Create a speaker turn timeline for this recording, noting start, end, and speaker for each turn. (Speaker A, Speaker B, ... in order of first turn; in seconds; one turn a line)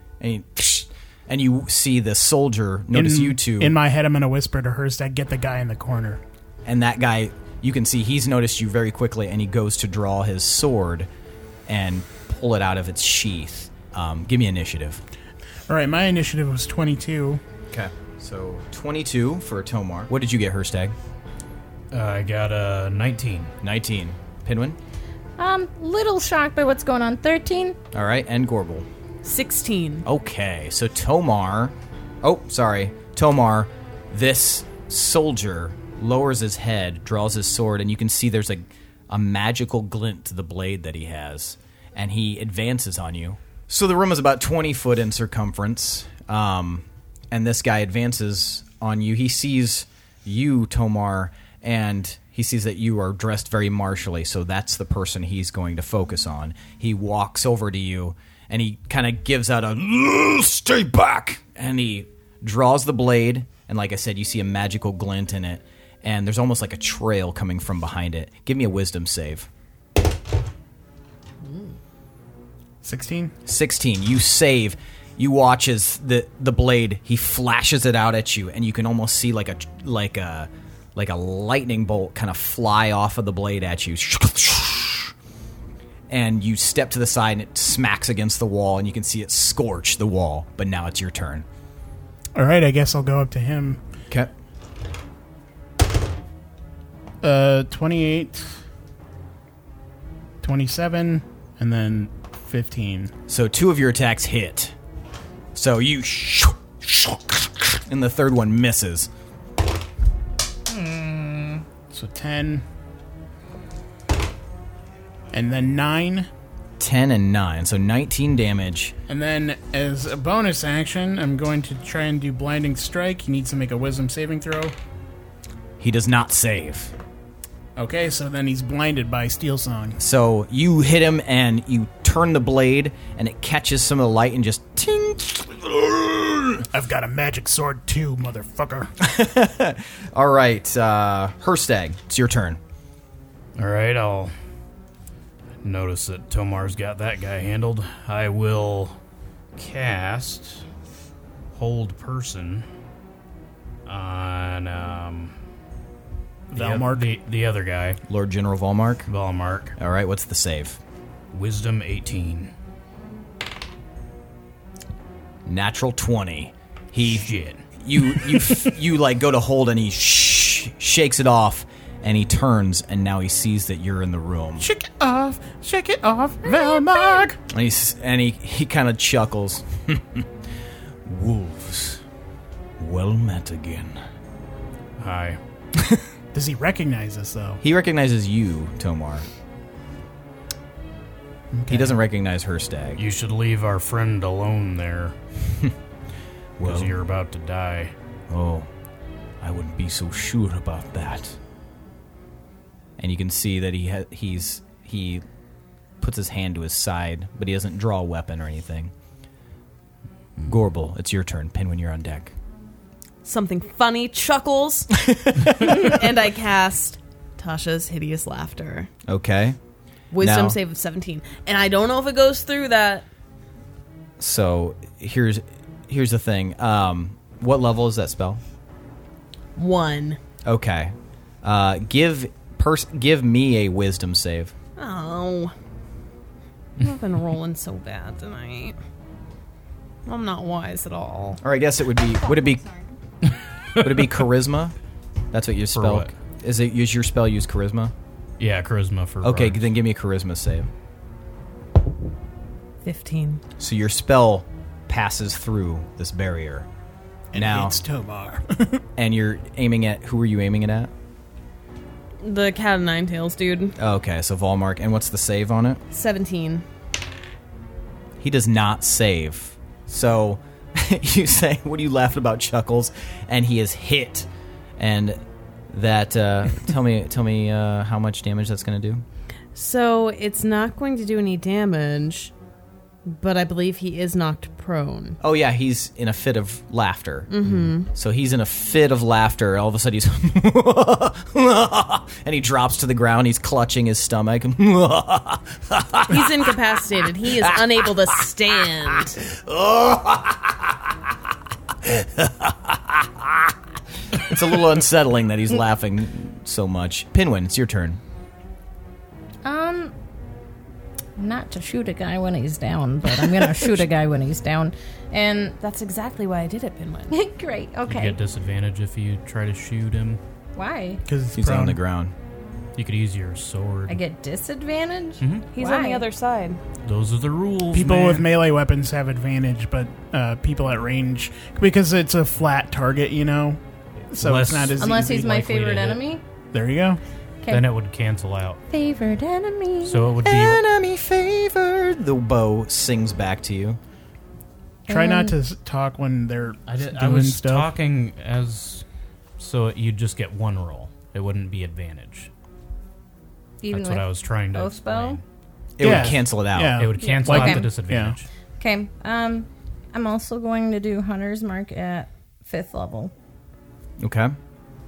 Speaker A: 0.2-3.8
Speaker B: 2.9-6.2
Speaker A: 6.7-11.1
Speaker A: 11.7-15.0
Speaker B: 15.7-17.4
Speaker A: 17.7-20.9
Speaker C: 21.9-23.5
Speaker A: 23.6-24.8
Speaker D: 25.4-27.8
Speaker A: 27.9-28.9
Speaker E: 29.2-30.1
Speaker A: 30.1-69.5
Speaker B: 72.8-73.3
Speaker A: 73.5-85.1
Speaker A: 86.1-91.5
Speaker B: 92.3-93.8
Speaker B: 97.2-98.6
Speaker B: 100.4-103.1
Speaker A: 103.3-104.8
Speaker A: 105.5-109.1
Speaker D: 110.7-111.6
Speaker B: 111.9-112.7
Speaker B: 115.3-116.3
Speaker A: 116.8-119.0
Speaker B: 119.1-124.8
Speaker A: 125.8-126.9
Speaker B: 127.8-130.0
Speaker A: 130.0-136.7
Speaker B: 136.7-138.9
Speaker A: 139.0-142.6
Speaker C: 143.6-144.3
Speaker C: 145.6-149.0
Speaker C: 149.6-150.7
Speaker C: 151.5-152.7
Speaker C: 153.9-155.3
Speaker C: 156.5-158.0
Speaker B: 156.5-157.1
Speaker A: 158.1-159.1
Speaker C: 159.1-159.8
Speaker A: 159.8-160.8
Speaker C: 161.3-162.5
Speaker A: 165.5-167.3
Speaker C: 167.0-168.7
Speaker A: 167.8-174.7
Speaker B: 174.6-177.4
Speaker D: 176.6-177.2
Speaker A: 177.5-180.3
Speaker A: 181.1-182.0
Speaker A: 182.8-184.0
Speaker C: 185.0-185.4
Speaker A: 185.8-186.1
Speaker B: 186.3-187.6
Speaker A: 187.6-189.3
Speaker B: 191.5-192.0
Speaker A: 191.7-193.0
Speaker C: 193.0-195.2
Speaker A: 196.6-196.9
Speaker C: 196.6-197.9
Speaker A: 198.3-198.7
Speaker A: 199.4-201.4
Speaker A: 203.0-205.2
Speaker A: 206.0-208.9
Speaker A: 210.5-212.3
Speaker E: 213.2-218.9
Speaker A: 215.0-215.8
Speaker A: 219.1-219.6
Speaker E: 220.1-223.1
Speaker A: 220.2-220.6
Speaker A: 224.2-228.4
Speaker E: 229.6-230.2
Speaker A: 230.4-234.5
Speaker E: 234.8-235.5
Speaker E: 236.8-238.8
Speaker E: 240.1-241.4
Speaker A: 241.4-242.6
Speaker E: 242.3-242.7
Speaker A: 243.8-244.8
Speaker A: 245.3-247.9
Speaker C: 245.7-246.1
Speaker C: 248.4-249.7
Speaker A: 249.2-250.7
Speaker E: 252.8-253.4
Speaker A: 253.6-256.7
Speaker B: 257.3-258.8
Speaker A: 257.4-257.8
Speaker A: 259.0-260.9
Speaker E: 262.2-263.8
Speaker A: 263.8-265.8
Speaker E: 265.9-266.6
Speaker A: 268.2-275.2
Speaker A: 275.7-279.0
Speaker E: 279.6-282.3
Speaker E: 283.1-285.2
Speaker A: 285.2-296.6
Speaker E: 287.3-287.9
Speaker E: 296.1-299.2
Speaker A: 297.2-298.2
Speaker A: 299.2-300.9
Speaker A: 301.8-303.5
Speaker A: 304.2-308.0
Speaker D: 309.4-309.9
Speaker D: 311.2-315.6
Speaker E: 315.6-317.1
Speaker D: 317.1-318.2
Speaker C: 317.9-320.2
Speaker D: 320.6-321.0
Speaker B: 321.1-321.8
Speaker A: 321.3-322.1
Speaker C: 322.8-324.0
Speaker D: 323.9-326.1
Speaker C: 325.2-325.5
Speaker E: 325.5-326.6
Speaker C: 326.9-328.3
Speaker B: 327.7-335.6
Speaker C: 334.1-336.0
Speaker D: 334.8-336.2
Speaker B: 336.5-337.0
Speaker D: 337.4-337.7
Speaker C: 337.5-338.6
Speaker D: 338.7-340.1
Speaker C: 339.9-340.6
Speaker A: 340.2-343.8
Speaker B: 344.9-347.7
Speaker D: 344.9-345.4
Speaker C: 346.7-348.8
Speaker C: 349.4-352.3
Speaker D: 353.6-355.2
Speaker C: 353.7-355.2
Speaker A: 355.8-356.8
Speaker B: 355.8-358.2
Speaker C: 355.9-356.2
Speaker C: 356.8-358.2
Speaker D: 357.0-357.7
Speaker D: 358.6-363.1
Speaker A: 364.0-364.4